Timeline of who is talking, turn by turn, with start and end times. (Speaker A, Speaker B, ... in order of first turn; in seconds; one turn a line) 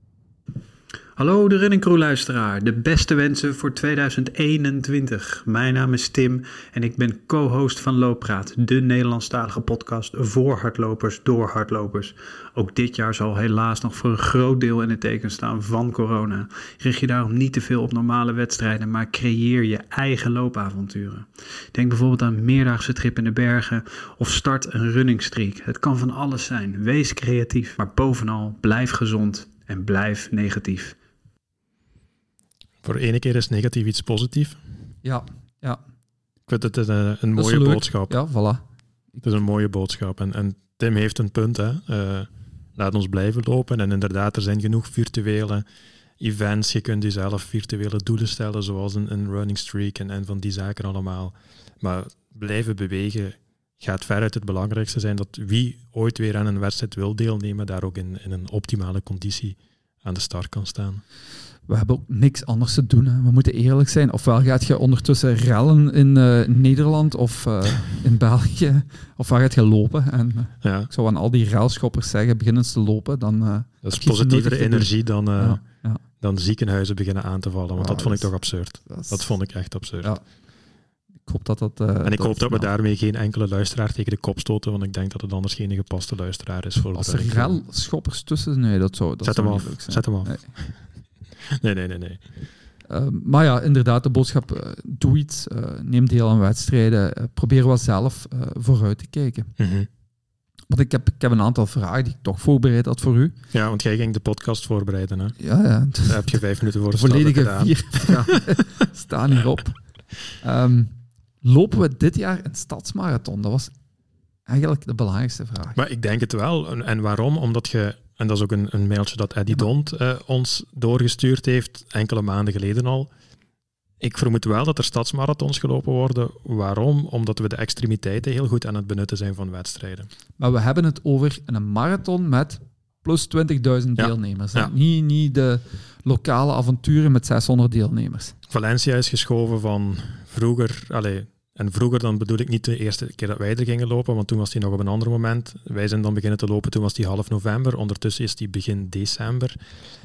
Speaker A: 1.2-30.9
Speaker B: 32.8-34.6
Speaker C: 35.0-35.8
Speaker B: 36.5-38.1
Speaker C: 37.4-38.6
Speaker B: 39.2-45.6
Speaker B: 46.2-61.0
Speaker C: 61.7-76.0
Speaker B: 70.6-70.9
Speaker B: 73.8-75.6
Speaker B: 76.2-80.1
Speaker C: 77.8-79.4
Speaker C: 81.2-82.7
Speaker B: 82.0-87.6
Speaker C: 87.0-90.4
Speaker B: 89.2-90.8
Speaker B: 91.5-92.2
Speaker C: 92.9-99.5
Speaker B: 99.6-99.9
Speaker C: 100.7-103.4
Speaker B: 103.5-105.4
Speaker C: 105.4-106.4
Speaker B: 106.1-108.6
Speaker C: 106.9-113.7
Speaker C: 114.5-115.8
Speaker B: 115.8-123.1
Speaker B: 124.0-130.1
Speaker C: 130.4-138.3
Speaker B: 134.0-134.7
Speaker B: 138.5-149.6